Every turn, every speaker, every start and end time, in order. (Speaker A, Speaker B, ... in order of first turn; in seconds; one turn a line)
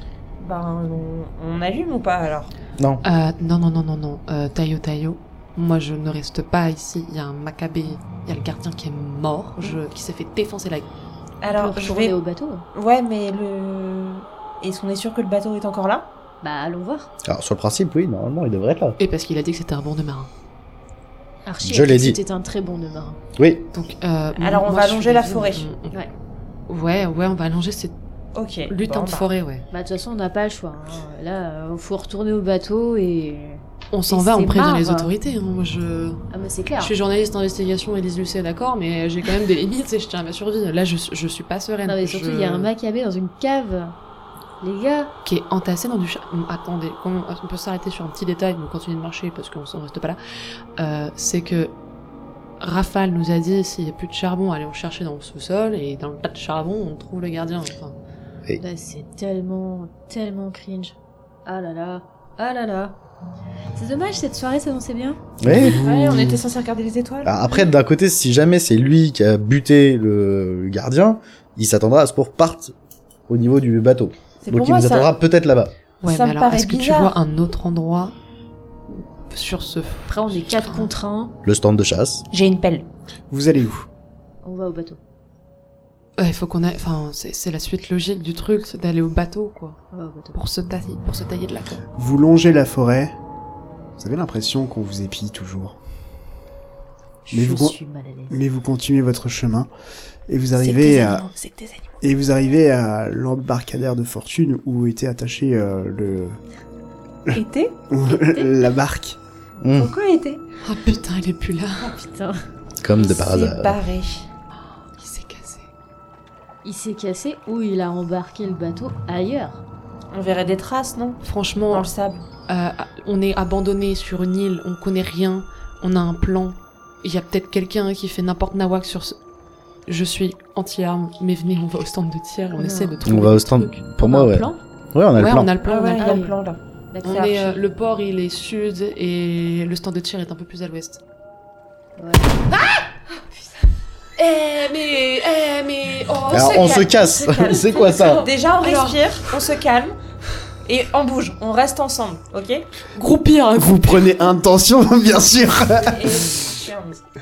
Speaker A: 0.4-2.5
Speaker B: 2.8-3.0
Speaker C: 3.0-10.9
Speaker A: 11.4-12.2
Speaker D: 11.5-12.7
Speaker A: 12.7-16.1
Speaker D: 16.4-17.1
Speaker B: 17.2-19.0
Speaker C: 19.0-20.3
Speaker D: 21.4-23.2
Speaker B: 21.6-22.2
Speaker B: 23.4-23.7
Speaker C: 23.7-26.0
Speaker A: 24.4-25.7
Speaker C: 26.7-27.9
Speaker A: 28.4-29.3
Speaker C: 28.7-29.7
Speaker D: 29.7-35.1
Speaker C: 33.9-36.2
Speaker D: 36.3-36.9
Speaker C: 36.8-42.7
Speaker D: 41.9-44.0
Speaker D: 44.6-45.1
Speaker C: 45.2-50.2
Speaker C: 50.8-51.7
Speaker C: 52.6-58.0
Speaker D: 58.6-63.0
Speaker D: 63.8-65.2
Speaker B: 65.4-65.8
Speaker E: 65.4-66.4
Speaker A: 65.5-67.4
Speaker B: 67.2-72.7
Speaker B: 73.3-75.7
Speaker A: 74.4-75.1
Speaker C: 76.0-78.2
Speaker A: 76.0-77.2
Speaker C: 78.9-80.9
Speaker D: 80.1-81.3
Speaker B: 81.5-82.2
Speaker A: 82.3-82.9
Speaker E: 83.3-83.9
Speaker D: 84.4-85.0
Speaker C: 86.2-89.8
Speaker D: 89.9-90.4
Speaker C: 90.3-91.8
Speaker E: 92.0-93.2
Speaker E: 94.0-95.8
Speaker D: 97.2-98.4
Speaker E: 97.3-97.8
Speaker E: 98.3-99.7
Speaker E: 100.3-101.3
Speaker C: 100.6-102.0
Speaker E: 102.0-106.4
Speaker E: 107.3-109.2
Speaker A: 107.3-107.8
Speaker D: 108.1-108.6
Speaker B: 109.6-109.9
Speaker A: 109.7-110.4
Speaker C: 110.6-111.9
Speaker D: 111.8-112.4
Speaker B: 112.8-113.8
Speaker A: 113.0-114.3
Speaker C: 114.6-115.7
Speaker D: 116.6-119.6
Speaker A: 120.1-122.2
Speaker C: 121.2-121.9
Speaker C: 122.5-129.2
Speaker C: 129.9-133.8
Speaker D: 132.6-133.0
Speaker B: 133.0-135.6
Speaker D: 134.0-134.6
Speaker C: 135.2-136.2
Speaker A: 135.6-137.5
Speaker D: 136.0-137.4
Speaker C: 137.0-141.0
Speaker D: 142.0-142.4
Speaker C: 144.2-146.9
Speaker A: 146.3-150.0
Speaker B: 146.3-148.3
Speaker C: 147.6-149.5
Speaker A: 150.7-152.7
Speaker C: 152.9-154.2
Speaker E: 153.6-156.3
Speaker A: 155.8-157.0